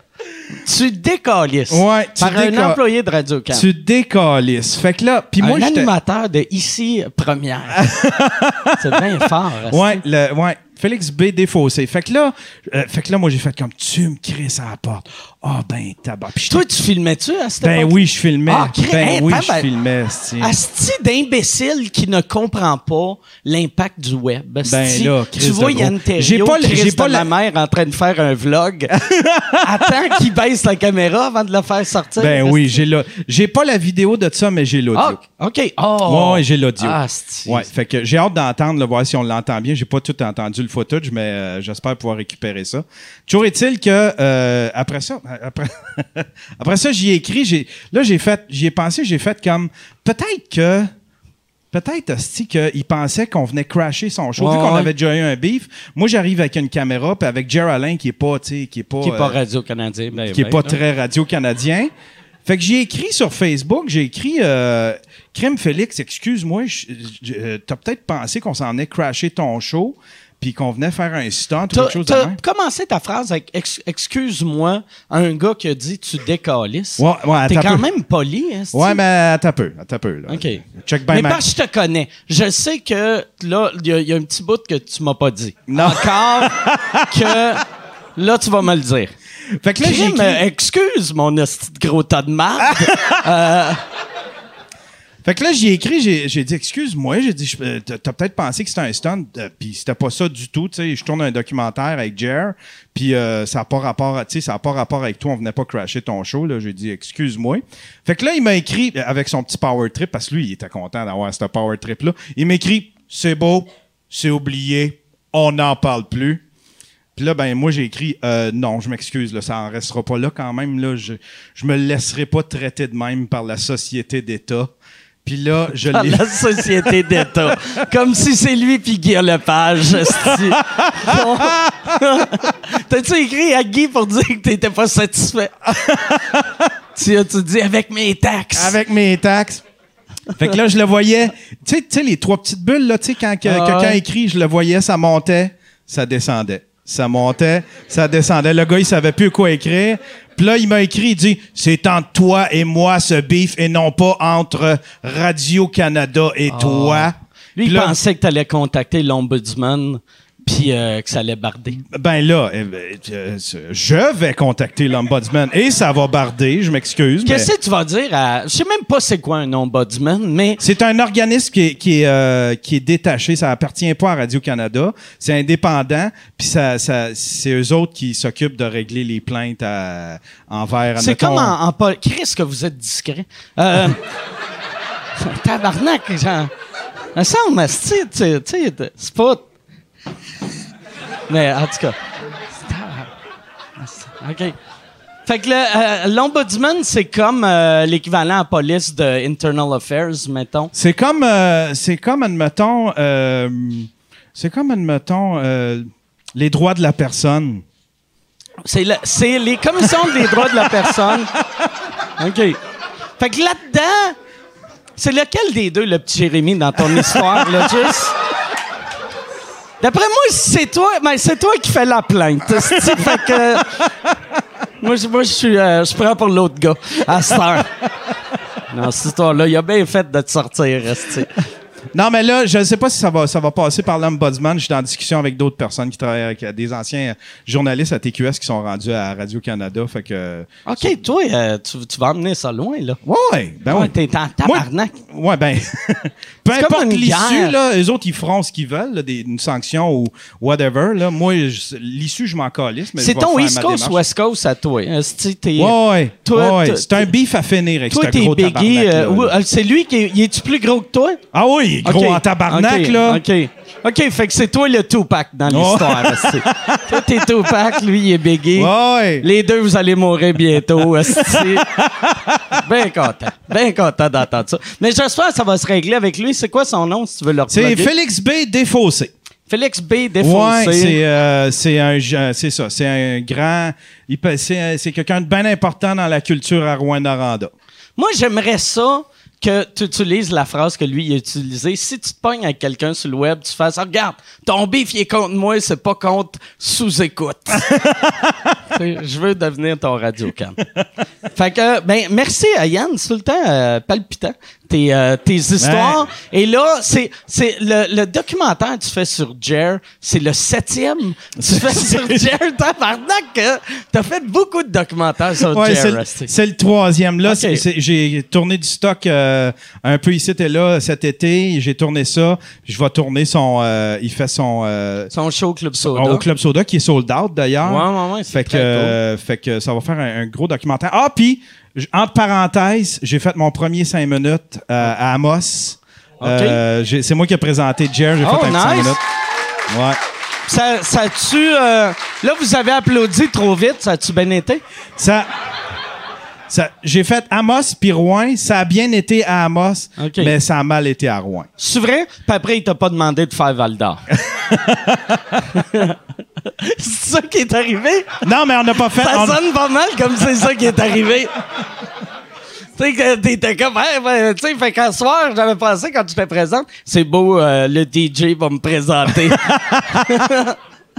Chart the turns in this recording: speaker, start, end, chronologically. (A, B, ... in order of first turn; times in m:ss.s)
0:00.6-0:03.6 A
0:01.7-0:02.8 B
0:03.5-0:05.9 B
0:05.4-0:08.0 A
0:07.8-0:16.6 B
0:08.7-0:10.0 A
0:16.4-0:19.7 A
0:17.6-0:20.5 B
0:20.4-0:28.9 A
0:24.6-0:27.3 B
0:28.9-0:30.2 B
0:29.6-0:32.8 A
0:32.2-0:35.2 B
0:34.9-0:37.7 A
0:36.0-0:50.9 B
0:51.7-0:59.4 B
0:54.4-0:54.9 A
0:59.0-1:00.8 A
1:00.1-1:01.9 B
1:02.4-1:12.4 B
1:11.7-1:19.0 A
1:17.0-1:17.9 B
1:18.7-1:21.4 B
1:20.3-1:27.6 A
1:25.7-1:27.6 B
1:28.2-1:29.1 A
1:29.6-1:30.4 B
1:29.8-1:33.8 A
1:32.7-1:33.2 B
1:35.2-1:56.4 B
1:57.2-2:04.7 B
2:05.2-2:07.8 B
2:05.9-2:16.4 A
2:10.0-2:12.4 B
2:15.9-2:16.6 B
2:16.9-2:18.8 A
2:18.6-2:19.6 B
2:20.4-2:38.0 B
2:23.4-2:24.0 A
2:36.5-2:41.8 A
2:41.8-2:47.5 B
2:47.2-2:50.6 A
2:50.6-3:01.6 B
3:01.0-3:04.0 A
3:05.2-3:06.5 A
3:07.1-3:09.4 A
3:11.3-3:12.0 A
3:12.6-3:13.1 A
3:13.8-3:14.6 A
3:15.2-3:20.7 A
3:20.7-3:27.6 B
3:28.6-3:31.3 A
3:30.0-3:31.1 B
3:32.2-3:32.6 A
3:33.2-3:34.2 A
3:35.0-3:38.1 A
3:36.8-3:37.7 B
3:39.8-3:43.8 A
3:42.5-3:43.9 B
3:44.8-3:47.8 A
3:48.7-3:51.4 A
3:51.9-4:01.0 B
4:00.6-4:03.0 A
4:03.0-4:14.0 B
4:03.7-4:05.0 A
4:06.5-4:07.6 A
4:13.0-4:17.1 A
4:15.6-4:19.3 B
4:17.9-4:21.2 A
4:21.3-4:23.2 B
4:21.8-4:31.7 A
4:25.5-4:27.3 B
4:28.6-4:29.2 B
4:31.1-4:32.6 B
4:32.5-4:37.9 A
4:37.5-4:39.1 B
4:39.5-4:41.0 A
4:40.2-4:47.5 B
4:48.0-4:57.9 A
4:58.6-5:00.6 A
5:01.3-5:16.3 A
5:05.6-5:06.0 B
5:11.4-5:12.2 B
5:15.4-5:25.1 B
5:17.2-5:17.6 A
5:25.1-5:26.2 A
5:25.8-5:39.0 B
5:27.6-5:29.0 A
5:36.2-5:36.6 A
5:38.2-5:39.0 A
5:39.7-5:40.0 B
5:40.5-5:44.6 A
5:45.0-5:45.3 B
5:46.5-5:51.5 B
5:50.0-5:50.3 A
5:51.6-5:54.0 A
5:54.3-5:55.2 B
5:55.4-5:58.2 A
5:58.2-5:59.4 B
5:58.9-6:01.3 A
6:02.8-6:10.6 A